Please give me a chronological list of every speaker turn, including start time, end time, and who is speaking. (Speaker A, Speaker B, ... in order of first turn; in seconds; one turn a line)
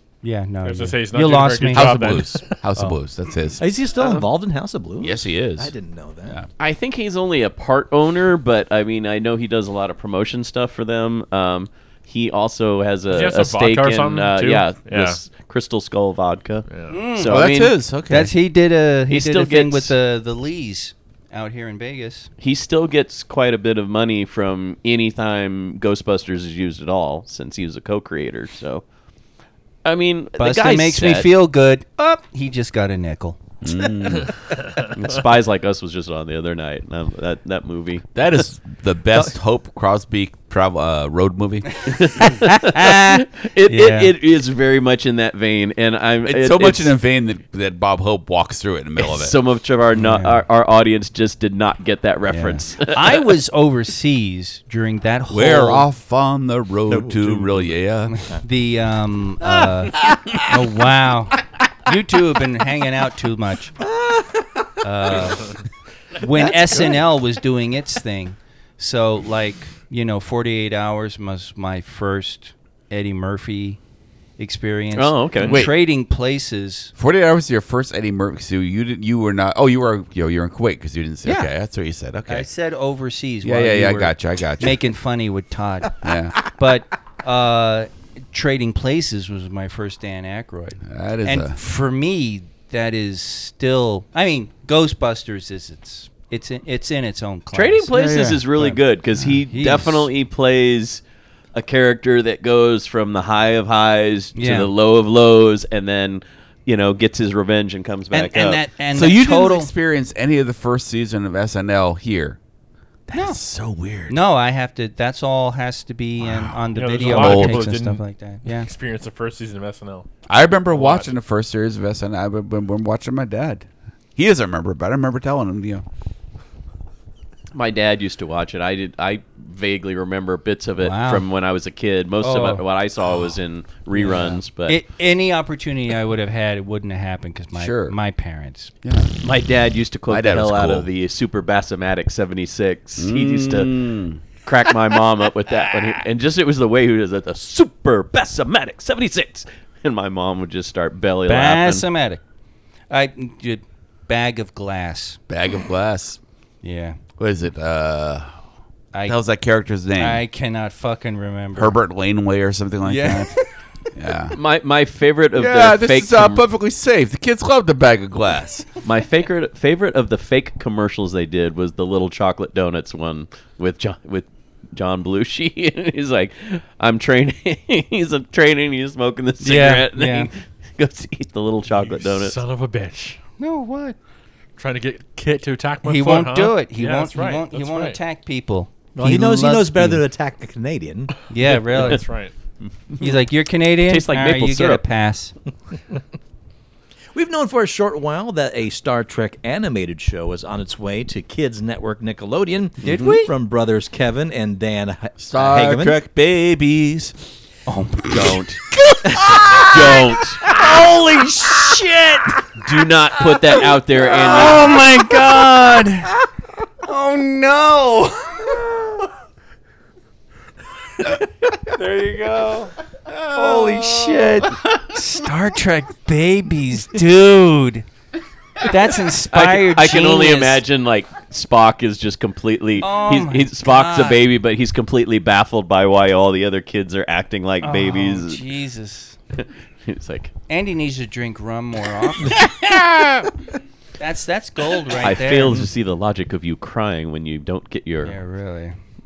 Speaker A: 0.2-3.0
Speaker B: 0.6-2.6
Speaker C: 1.7-3.6
Speaker D: 3.6-6.4
Speaker E: 4.0-4.2
Speaker C: 5.0-5.7
Speaker E: 6.6-17.7
Speaker B: 13.1-15.2
Speaker B: 16.7-17.0
Speaker A: 16.9-17.5
Speaker C: 17.2-18.4
Speaker A: 18.1-22.3
Speaker E: 19.1-19.9
Speaker E: 22.4-28.8
Speaker E: 29.9-31.3
Speaker A: 30.4-33.4
Speaker C: 33.6-34.3
Speaker E: 34.9-38.1
Speaker C: 38.1-41.9
Speaker E: 41.9-46.9
Speaker A: 42.2-44.1
Speaker C: 46.2-49.4
Speaker E: 49.0-53.2
Speaker A: 50.0-50.4
Speaker A: 52.3-55.9
Speaker C: 55.3-58.2
Speaker D: 56.9-57.8
Speaker A: 58.1-63.8
Speaker D: 63.8-64.5
Speaker A: 64.8-65.6
Speaker A: 66.2-73.8
Speaker D: 66.3-67.0
Speaker A: 74.4-76.9
Speaker E: 75.0-75.6
Speaker C: 75.4-75.7
Speaker C: 77.0-82.5
Speaker A: 81.2-81.5
Speaker A: 82.3-100.1
Speaker C: 83.4-84.8
Speaker C: 86.0-86.4
Speaker C: 90.8-91.6
Speaker E: 97.5-101.0
Speaker C: 97.9-98.4
Speaker E: 101.5-108.6
Speaker A: 104.3-104.7
Speaker A: 108.1-109.7
Speaker C: 108.9-112.4
Speaker C: 113.1-114.2
Speaker A: 114.1-118.7
Speaker C: 116.2-117.7
Speaker B: 116.7-120.1
Speaker C: 120.3-125.8
Speaker B: 120.7-121.1
Speaker E: 127.5-134.8
Speaker A: 130.8-131.3
Speaker A: 132.2-132.6
Speaker A: 133.9-138.7
Speaker C: 137.6-138.0
Speaker C: 138.8-139.1
Speaker E: 139.2-143.8
Speaker C: 140.1-140.9
Speaker C: 143.0-144.2
Speaker E: 144.4-151.8
Speaker A: 151.2-152.2
Speaker A: 152.9-155.2
Speaker C: 155.3-156.2
Speaker A: 156.6-157.0
Speaker C: 157.2-158.3
Speaker C: 159.1-160.2
Speaker A: 160.0-161.7
Speaker C: 161.6-163.3
Speaker A: 162.8-163.5
Speaker C: 163.9-164.4
Speaker E: 164.3-166.4
Speaker C: 165.3-168.7
Speaker E: 168.8-182.4
Speaker A: 179.4-180.3
Speaker B: 181.7-183.2
Speaker A: 183.4-184.0
Speaker B: 184.6-188.0
Speaker A: 185.8-190.0
Speaker D: 189.0-191.2
Speaker A: 191.3-192.0
Speaker B: 191.4-192.3
Speaker A: 193.0-195.3
Speaker E: 193.9-194.8
Speaker D: 197.1-206.0
Speaker A: 202.8-203.3
Speaker C: 202.9-203.1
Speaker C: 205.2-207.2
Speaker A: 207.7-208.3
Speaker E: 208.1-208.6
Speaker A: 209.0-212.4
Speaker E: 209.4-210.4
Speaker E: 212.6-214.8
Speaker A: 213.3-216.2
Speaker A: 216.8-219.0
Speaker A: 221.1-222.7
Speaker C: 223.1-224.2
Speaker A: 223.3-227.8
Speaker A: 228.6-230.6
Speaker E: 229.3-238.4
Speaker A: 232.8-234.2
Speaker A: 237.6-239.2
Speaker E: 239.4-240.3
Speaker A: 240.5-242.4
Speaker C: 242.3-243.3
Speaker A: 244.0-245.6
Speaker E: 245.0-248.2
Speaker A: 248.1-248.8